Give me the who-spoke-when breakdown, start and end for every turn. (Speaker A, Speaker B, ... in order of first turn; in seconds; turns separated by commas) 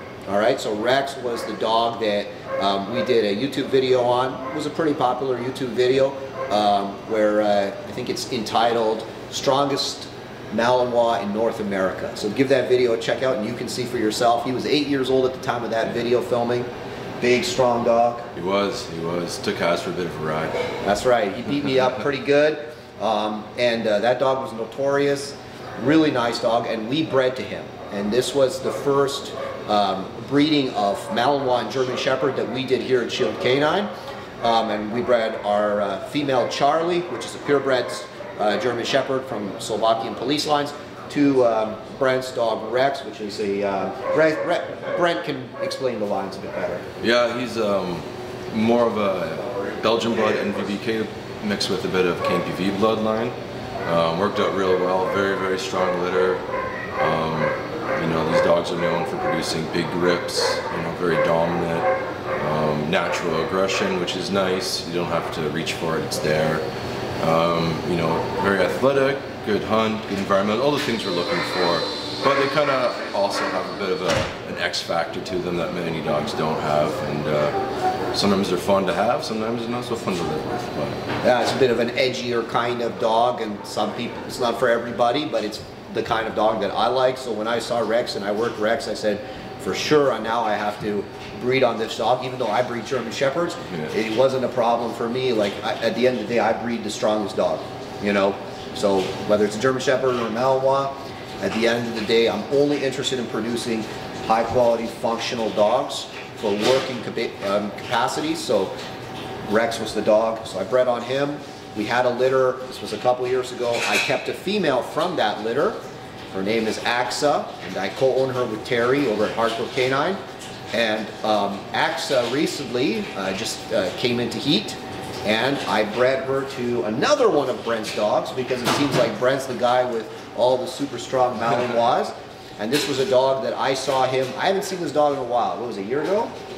Speaker A: 0.3-16.7, Speaker A: 17.2-18.3, Speaker B: 18.4-20.6, Speaker A: 20.8-46.8, Speaker B: 47.0-56.4, Speaker B: 57.0-66.6, Speaker B: 67.2-77.6, Speaker B: 78.1-81.0, Speaker A: 81.2-108.7, Speaker B: 93.7-93.9, Speaker A: 109.5-115.8, Speaker A: 116.3-120.2, Speaker A: 120.7-136.3